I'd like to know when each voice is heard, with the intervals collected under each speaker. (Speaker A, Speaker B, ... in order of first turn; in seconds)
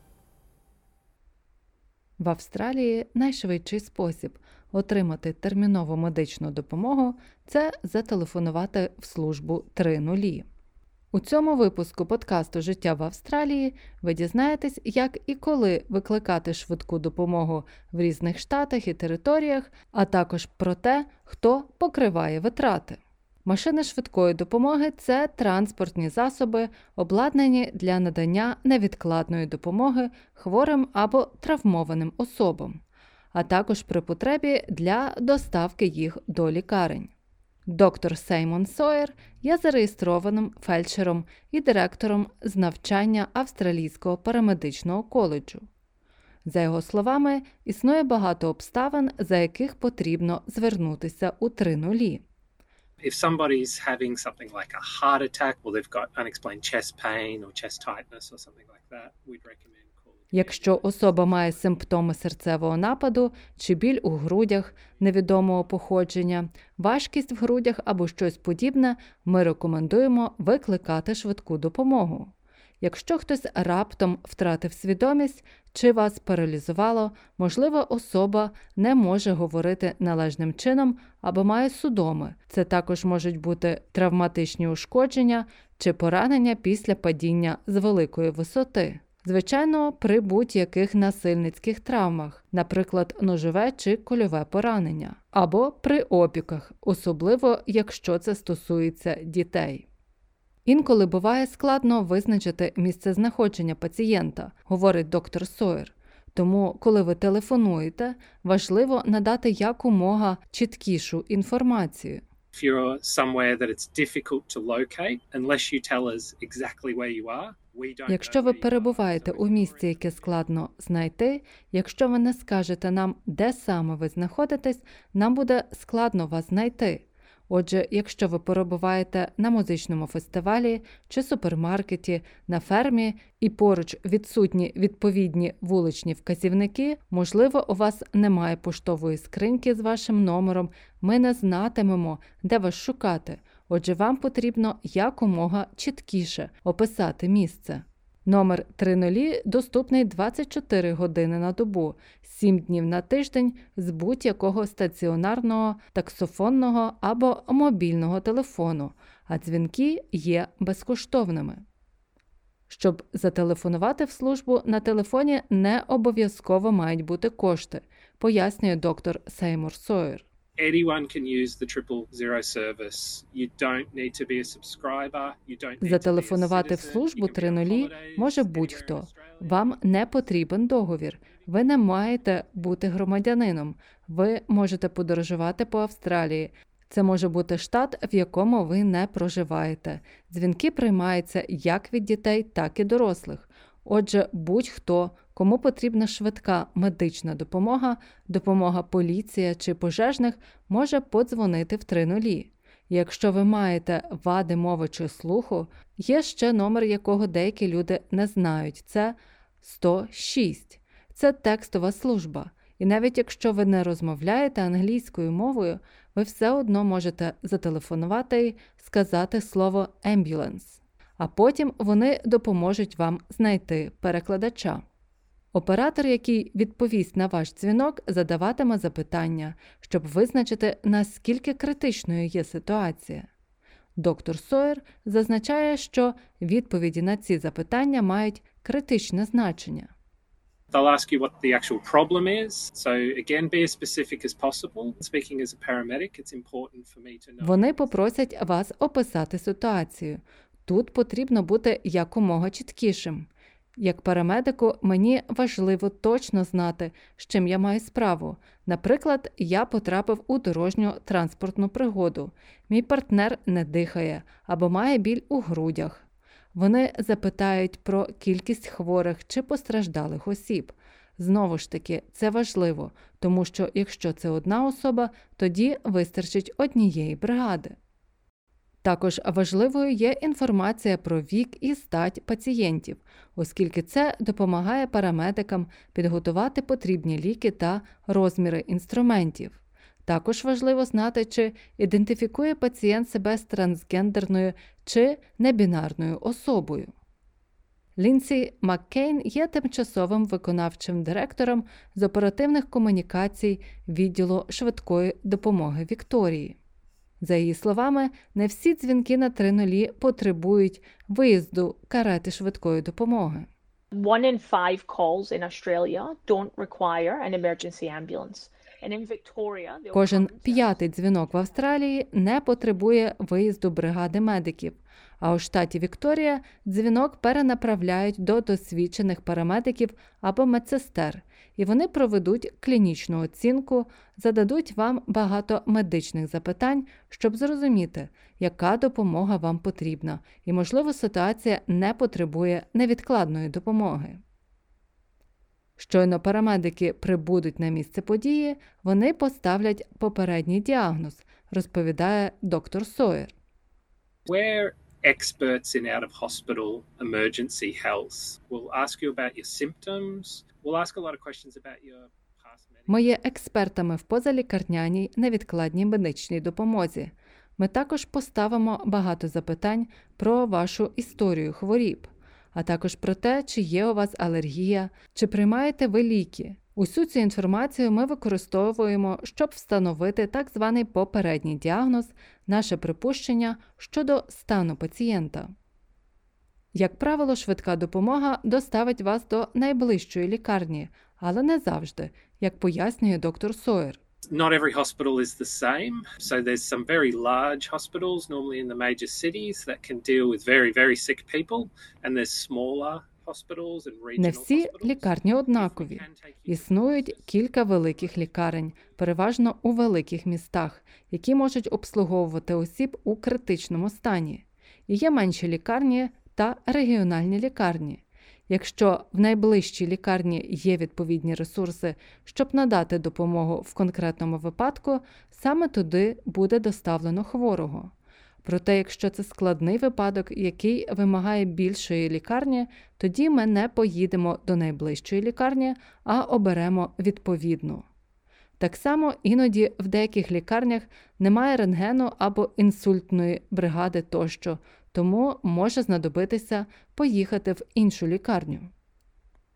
Speaker A: 2.2-10.4, 11.1-32.8, 33.3-37.1, 37.7-45.7, 46.4-52.2, 60.3-99.9, 100.7-112.2, 118.1-161.6, 162.7-170.2, 175.8-224.8, 225.5-233.3, 234.0-239.9, 247.4-277.8, 278.8-296.9, 298.0-306.6, 307.2-313.5, 319.9-344.2, 345.8-353.3, 362.9-385.5, 386.7-394.0, 404.2-427.9, 428.4-437.8, 438.6-448.7
Speaker B: 53.0-61.8, 112.5-120.5, 170.6-180.5, 181.2-182.7, 240.7-248.3, 354.3-363.1, 394.3-409.0
Speaker C: 313.9-321.7